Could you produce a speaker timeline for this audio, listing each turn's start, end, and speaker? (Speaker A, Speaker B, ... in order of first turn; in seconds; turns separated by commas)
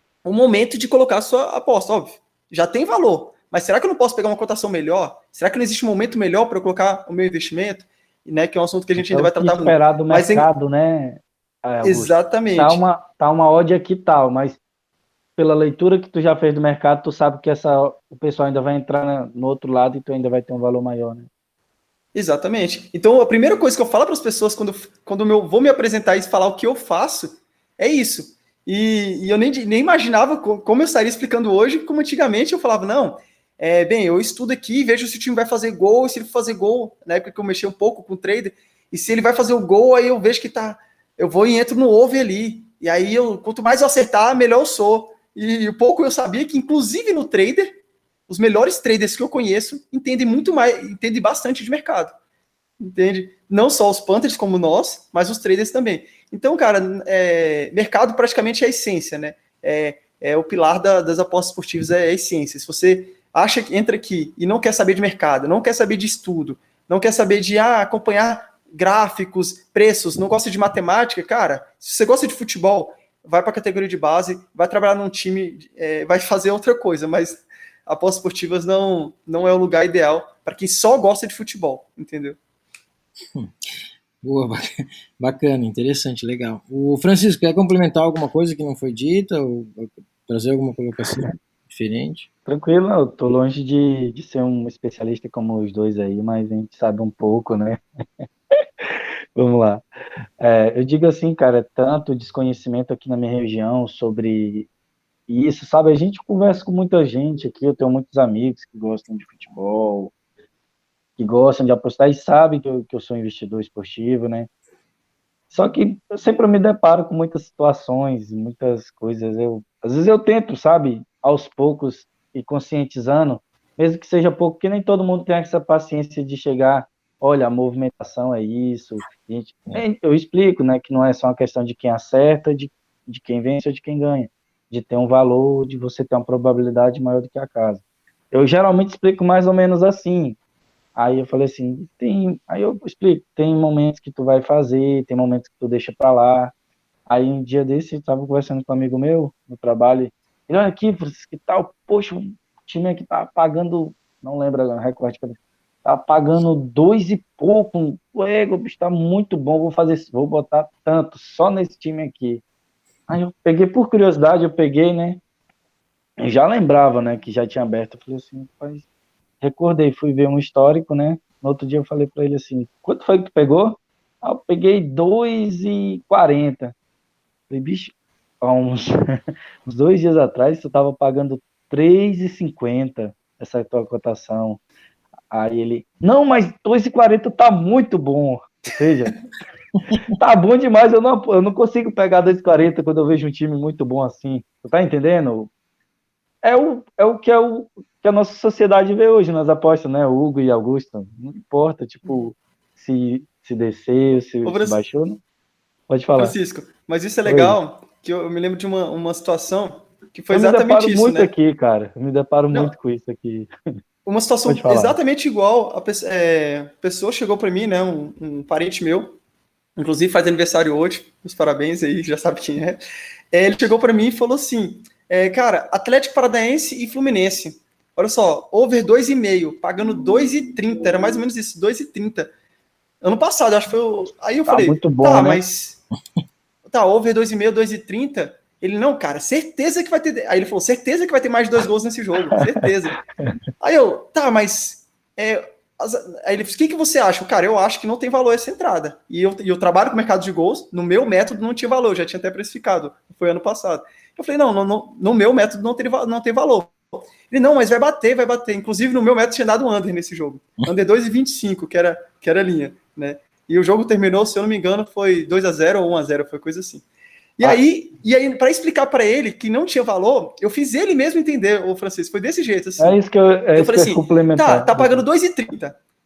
Speaker A: 0.2-10.5, Speaker B: 9.1-14.6, Speaker A: 11.8-12.8, Speaker B: 15.4-21.3, Speaker A: 22.1-52.1, Speaker A: 52.8-82.4, Speaker C: 84.2-92.3, Speaker B: 92.5-98.2, Speaker B: 98.8-99.8, Speaker B: 100.4-104.7, Speaker B: 105.3-110.1, Speaker B: 111.2-114.5, Speaker B: 115.5-140.3, Speaker B: 140.9-146.5, Speaker B: 147.1-162.4, Speaker B: 163.1-165.2, Speaker B: 166.2-168.8, Speaker B: 169.4-176.7, Speaker B: 177.5-184.6, Speaker B: 185.3-189.2, Speaker B: 190.1-195.5, Speaker B: 196.4-205.2, Speaker A: 204.4-204.8, Speaker B: 205.9-206.3, Speaker A: 206.2-211.3, Speaker B: 207.2-207.6, Speaker B: 210.3-213.5, Speaker A: 214.0-219.2, Speaker B: 214.5-214.9, Speaker A: 219.8-222.8, Speaker A: 223.3-232.3, Speaker A: 233.0-235.8, Speaker B: 234.5-235.4, Speaker A: 236.7-243.0, Speaker A: 243.6-266.9, Speaker A: 267.4-273.0, Speaker B: 272.8-275.0, Speaker A: 273.5-275.8